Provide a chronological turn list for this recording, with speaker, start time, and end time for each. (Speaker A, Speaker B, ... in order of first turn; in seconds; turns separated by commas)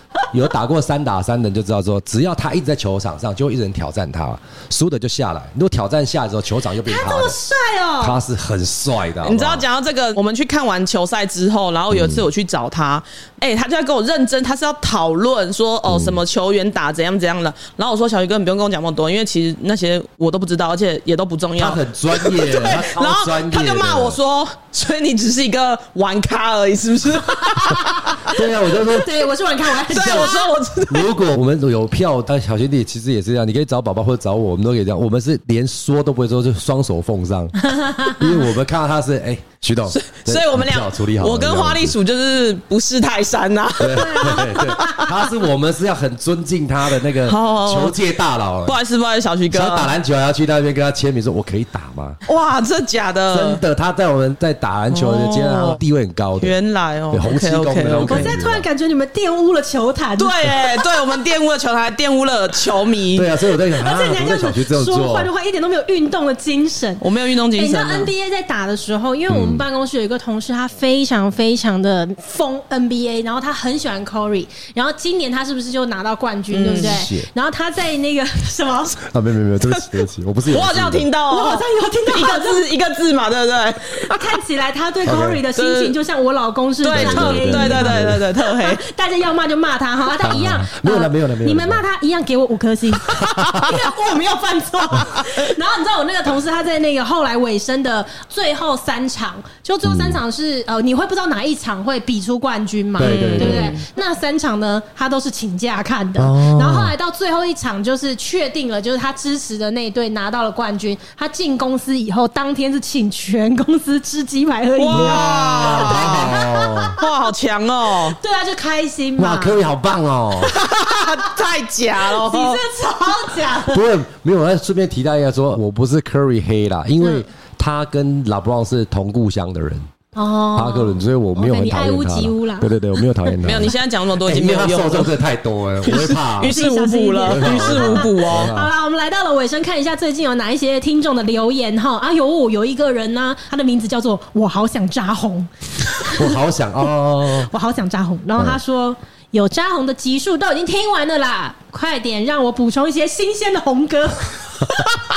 Speaker A: 0.3-7.4, Speaker B: 6.8-8.2, Speaker A: 8.0-9.6, Speaker C: 9.2-28.1, Speaker A: 11.9-12.2, Speaker A: 15.9-16.2, Speaker A: 21.6-24.2, Speaker B: 27.4-30.5, Speaker A: 28.2-29.2, Speaker C: 29.9-31.1, Speaker A: 29.9-30.3, Speaker A: 30.9-42.0, Speaker B: 37.6-38.2, Speaker C: 39.9-45.1, Speaker A: 43.8-48.8, Speaker B: 43.9-45.1, Speaker C: 47.2-48.0, Speaker C: 48.6-49.9, Speaker A: 49.5-52.2, Speaker C: 52.2-53.6, Speaker A: 53.3-56.5, Speaker C: 54.9-55.8, Speaker C: 56.4-58.4, Speaker A: 57.1-58.6, Speaker B: 58.0-60.9, Speaker C: 60.2-63.3, Speaker A: 63.1-65.3, Speaker B: 63.8-79.0, Speaker C: 67.0-68.1, Speaker A: 69.3-69.6, Speaker C: 76.5-77.0, Speaker A: 76.7-77.3, Speaker A: 79.0-81.1, Speaker C: 80.5-84.3, Speaker B: 81.3-82.6, Speaker B: 83.9-117.2, Speaker A: 85.0-85.4, Speaker C: 85.5-86.0, Speaker C: 86.8-88.8, Speaker A: 86.9-88.2, Speaker A: 90.2-91.8, Speaker A: 93.0-93.8, Speaker A: 99.8-100.2, Speaker A: 103.0-103.8, Speaker C: 103.0-103.8, Speaker A: 106.2-106.9, Speaker C: 114.8-116.4, Speaker A: 114.9-117.0, Speaker C: 116.9-118.2, Speaker B: 118.0-119.6, Speaker A: 119.2-120.6, Speaker C: 120.4-122.6, Speaker B: 122.0-123.8, Speaker A: 123.7-129.9, Speaker B: 130.1-132.7, Speaker A: 130.5-136.6, Speaker C: 133.4-135.2, Speaker C: 135.8-138.5, Speaker B: 136.4-146.3, Speaker A: 137.3-138.7, Speaker A: 146.1-147.5, Speaker B: 147.4-154.9